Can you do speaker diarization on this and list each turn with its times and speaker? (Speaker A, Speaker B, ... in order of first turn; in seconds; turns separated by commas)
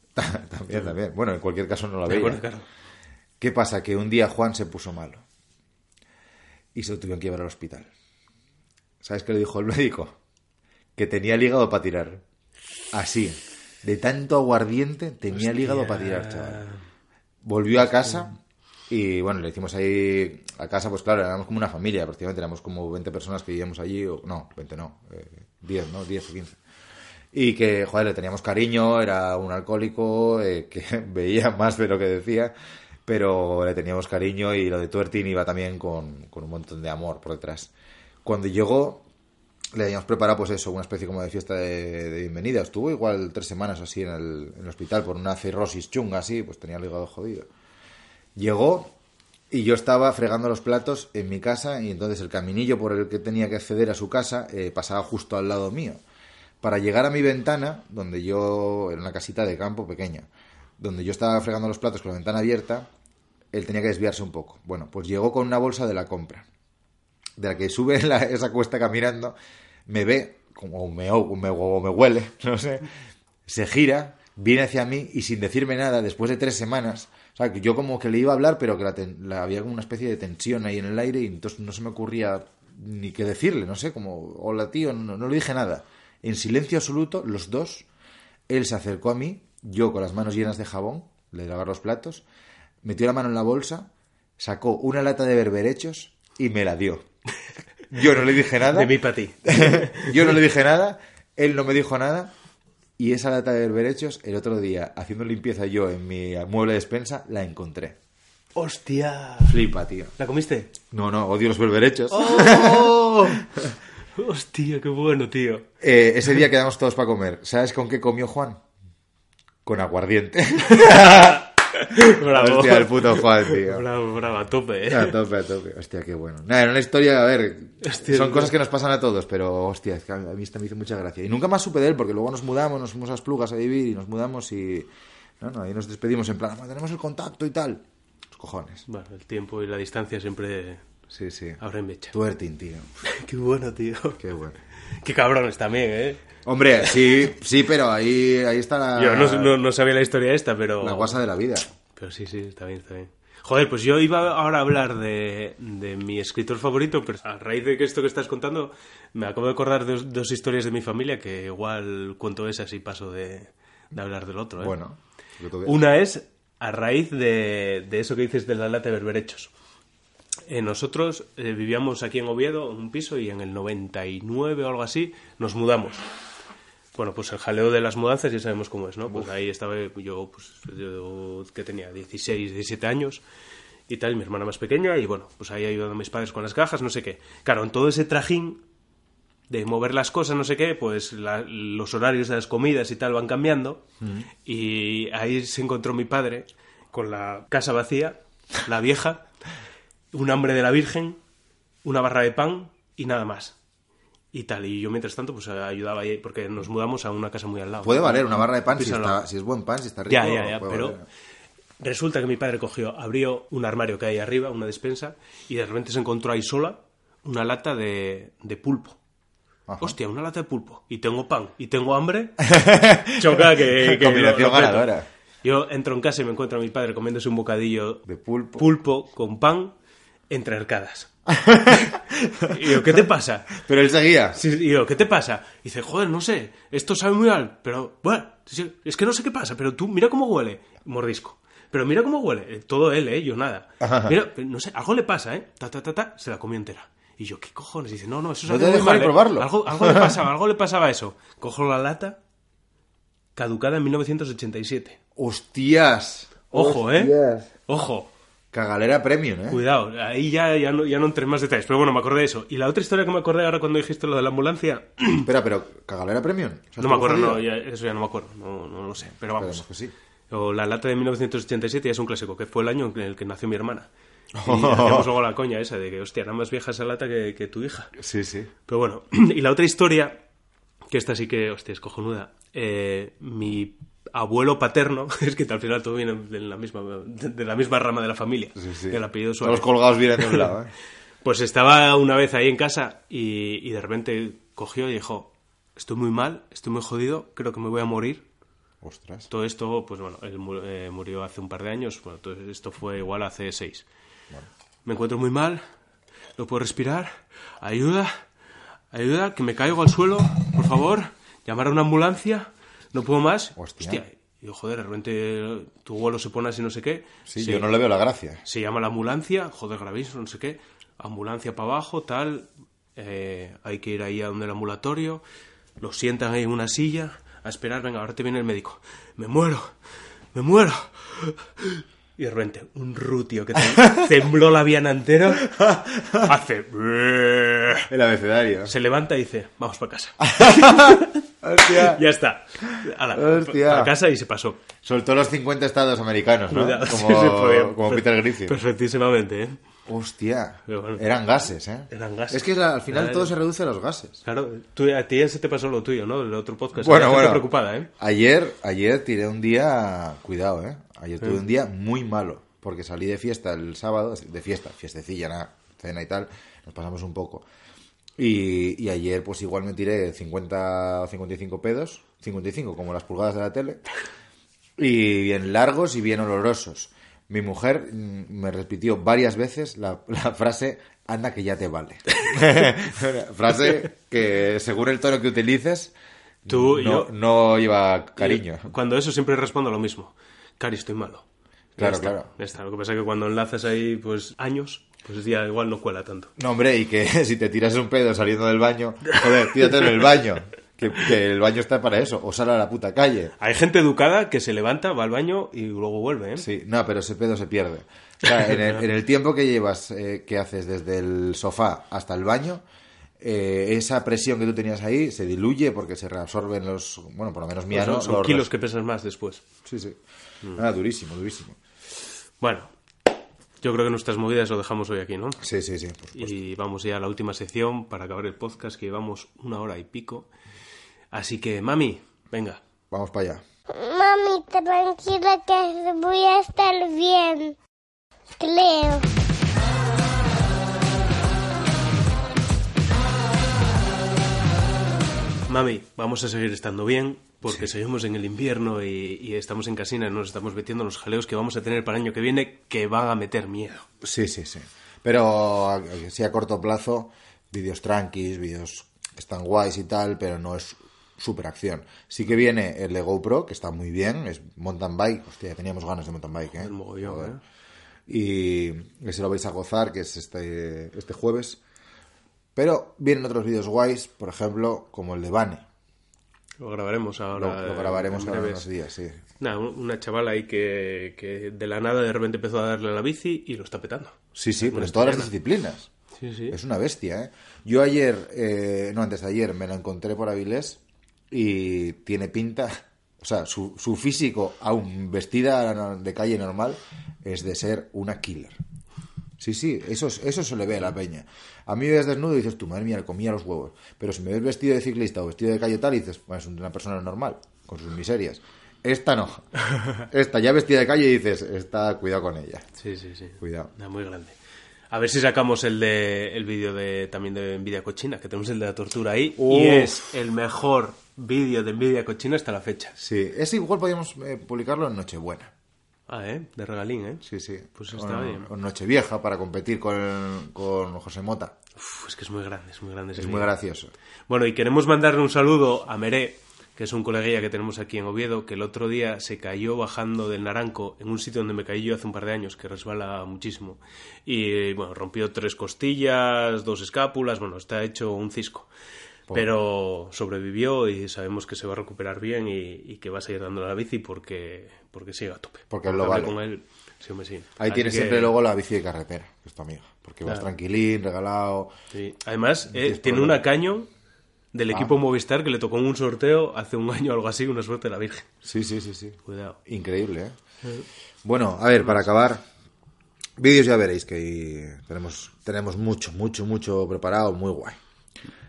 Speaker A: 0.1-2.4, Speaker B: 2.0-2.7, Speaker A: 3.4-5.2, Speaker A: 6.7-7.9, Speaker A: 9.0-10.2, Speaker A: 10.9-12.2, Speaker A: 12.9-16.6, Speaker B: 15.3-16.8, Speaker A: 17.4-18.4, Speaker A: 18.9-26.6, Speaker A: 27.3-32.5, Speaker A: 33.0-37.7, Speaker A: 38.2-39.0, Speaker A: 39.7-47.5, Speaker A: 48.4-48.9, Speaker A: 49.5-56.0, Speaker A: 56.6-60.3, Speaker A: 60.8-62.9, Speaker A: 63.5-66.5, Speaker A: 67.4-69.3, Speaker A: 69.9-72.9, Speaker A: 73.5-87.9, Speaker A: 88.5-92.2, Speaker A: 92.8-97.0, Speaker A: 97.9-102.3, Speaker B: 98.6-100.3, Speaker A: 103.0-108.0, Speaker B: 108.5-109.6, Speaker A: 109.4-110.1, Speaker B: 110.2-110.7, Speaker A: 110.8-113.7, Speaker B: 112.1-113.4, Speaker B: 114.2-115.7, Speaker A: 115.8-118.6, Speaker A: 119.6-123.8, Speaker B: 120.8-125.1, Speaker A: 124.9-138.8, Speaker B: 127.8-128.5, Speaker B: 138.9-140.8, Speaker A: 141.1-141.6, Speaker B: 141.6-142.1, Speaker A: 142.1-142.9, Speaker B: 143.0-144.2, Speaker A: 144.2-144.6, Speaker B: 145.0-146.2, Speaker A: 146.4-149.6, Speaker B: 148.9-151.2, Speaker A: 150.8-151.7, Speaker B: 151.9-164.8, Speaker A: 164.6-165.8, Speaker B: 165.6-169.5, Speaker B: 170.5-176.1, Speaker B: 176.9-183.2, Speaker B: 183.9-188.6, Speaker B: 189.5-193.8, Speaker A: 194.0-194.3, Speaker B: 194.4-199.3, Speaker B: 200.1-201.2, Speaker B: 201.8-203.6, Speaker B: 204.3-209.2, Speaker A: 207.8-211.0, Speaker B: 210.1-211.0, Speaker B: 211.8-219.0, Speaker A: 219.7-219.9, Speaker B: 219.8-222.4, Speaker A: 222.4-225.1, Speaker B: 223.1-229.7, Speaker A: 228.1-228.7, Speaker B: 230.3-231.1, Speaker A: 231.3-232.8, Speaker B: 232.4-233.6, Speaker A: 233.6-234.4, Speaker B: 234.3-252.2, Speaker A: 243.8-244.2, Speaker A: 248.4-250.1, Speaker B: 253.3-255.0, Speaker A: 255.2-257.5, Speaker B: 256.5-257.1, Speaker B: 257.7-258.1, Speaker A: 258.5-259.6, Speaker B: 259.5-265.3, Speaker A: 265.2-267.4, Speaker B: 266.8-269.6, Speaker A: 269.3-269.9, Speaker B: 270.3-273.9, Speaker A: 274.4-275.1, Speaker B: 274.4-277.9, Speaker A: 278.0-278.5, Speaker B: 278.7-280.2, Speaker B: 280.9-290.5, Speaker A: 288.6-290.7, Speaker B: 291.2-298.2, Speaker A: 298.8-299.3, Speaker B: 299.3-303.9, Speaker B: 304.8-305.6, Speaker B: 306.4-308.2, Speaker B: 308.9-317.7, Speaker A: 313.6-314.0, Speaker A: 317.3-318.4, Speaker B: 318.4-325.2, Speaker B: 325.8-329.7, Speaker B: 330.3-335.5, Speaker A: 335.4-336.3, Speaker B: 336.1-337.9, Speaker A: 337.9-338.7, Speaker B: 338.7-344.6, Speaker A: 340.2-342.0, Speaker A: 342.6-343.9, Speaker A: 344.8-348.6, Speaker B: 346.5-349.6, Speaker A: 349.9-354.2, Speaker B: 350.7-351.1, Speaker B: 351.9-353.3, Speaker B: 354.2-357.9, Speaker A: 356.7-367.4, Speaker A: 368.2-373.9, Speaker A: 374.8-385.9, Speaker A: 386.4-388.7, Speaker B: 386.5-387.1, Speaker B: 388.2-391.2, Speaker A: 391.8-392.3, Speaker B: 391.8-396.3, Speaker A: 396.4-403.3, Speaker B: 403.4-406.4, Speaker A: 406.4-412.6, Speaker A: 413.2-418.5, Speaker B: 417.7-419.4, Speaker A: 419.6-420.0, Speaker A: 420.6-421.6, Speaker B: 422.4-422.7, Speaker B: 423.6-425.4, Speaker A: 425.4-426.4, Speaker B: 426.1-430.3, Speaker B: 431.1-432.6, Speaker A: 432.9-433.4, Speaker C: 433.7-437.6, Speaker C: 438.4-439.1, Speaker B: 445.5-453.9, Speaker A: 454.0-467.4, Speaker B: 466.5-467.4, Speaker A: 468.1-471.6, Speaker A: 472.6-475.7, Speaker B: 476.6-478.7, Speaker A: 477.3-479.2, Speaker B: 479.4-485.3, Speaker A: 484.3-485.9, Speaker B: 486.1-486.6, Speaker A: 486.5-490.8, Speaker A: 491.3-498.6, Speaker A: 499.4-512.6, Speaker B: 512.8-514.4, Speaker A: 513.4-513.7, Speaker B: 514.9-523.0, Speaker A: 519.4-520.0, Speaker A: 523.0-525.5, Speaker B: 526.1-528.5, Speaker A: 527.2-531.5, Speaker B: 531.8-533.5, Speaker A: 533.1-533.9, Speaker B: 534.3-548.7, Speaker B: 549.3-558.3, Speaker A: 555.7-556.3, Speaker A: 557.6-561.7, Speaker B: 561.9-563.9, Speaker A: 562.7-563.4, Speaker B: 564.5-568.3, Speaker A: 568.4-570.4, Speaker B: 569.2-569.6, Speaker A: 571.2-572.4, Speaker A: 573.4-577.8